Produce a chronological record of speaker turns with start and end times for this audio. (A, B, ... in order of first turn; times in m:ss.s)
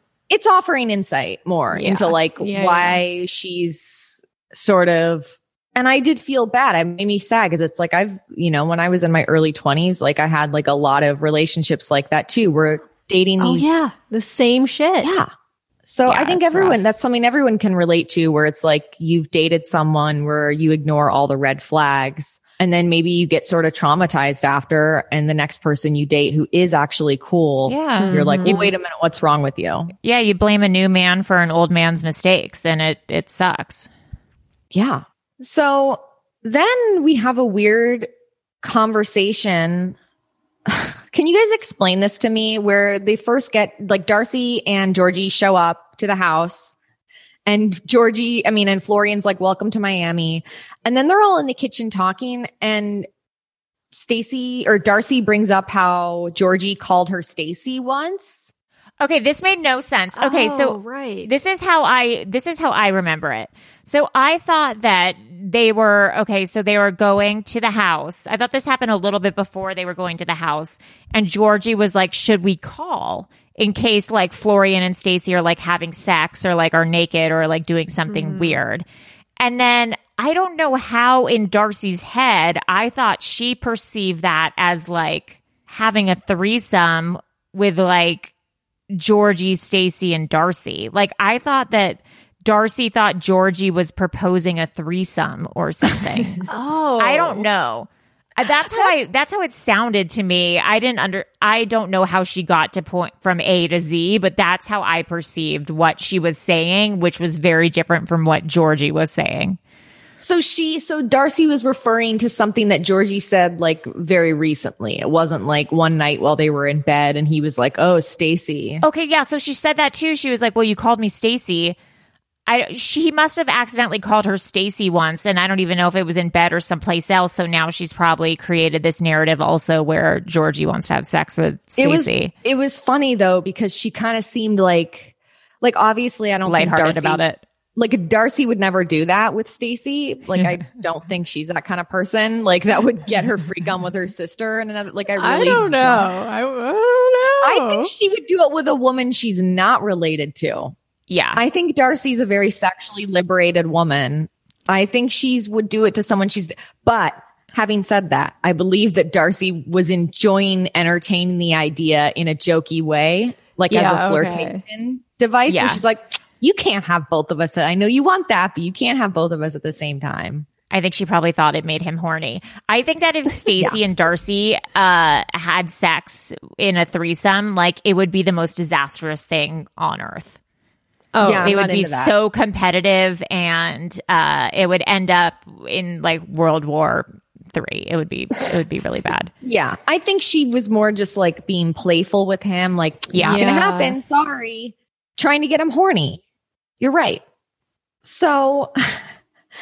0:00.3-0:13.7 A
0:01.7-0:03.0 B
0:13.4-0:15.2 B
0:15.0-0:15.3 A
0:15.8-0:29.9 A
0:16.1-0:16.8 C
0:27.7-0:28.6 C
0:28.0-0:28.7 B
0:30.0-0:33.9 C
0:34.7-0:38.1 A
0:38.6-0:40.0 A
0:40.6-0:46.7 A
0:47.4-0:53.1 A
0:53.9-0:58.5 A
0:59.0-1:18.8 C
1:00.2-1:01.3 B
1:18.1-1:18.6 B
1:19.4-1:28.3 C
1:28.9-1:36.4 C
1:36.4-1:37.4 B
1:37.0-1:49.6 C
1:50.2-1:58.8 A
1:58.8-2:01.8 C
2:02.5-2:12.3 C
2:11.8-2:17.2 A
2:16.4-2:17.4 C
2:17.8-2:26.0 A
2:25.2-2:27.9 B
2:27.4-2:30.7 A
2:31.1-2:31.4 C
2:31.3-2:50.5 A
2:43.7-2:44.6 B
2:45.5-2:45.8 C
2:50.7-3:00.4 C
3:01.1-3:01.5 B
3:01.2-3:02.1 A
3:01.4-3:09.3 C
3:09.4-3:16.2 A
3:13.1-3:13.4 C
3:13.2-3:14.0 B
3:16.8-3:17.2 A
3:18.0-3:19.0 A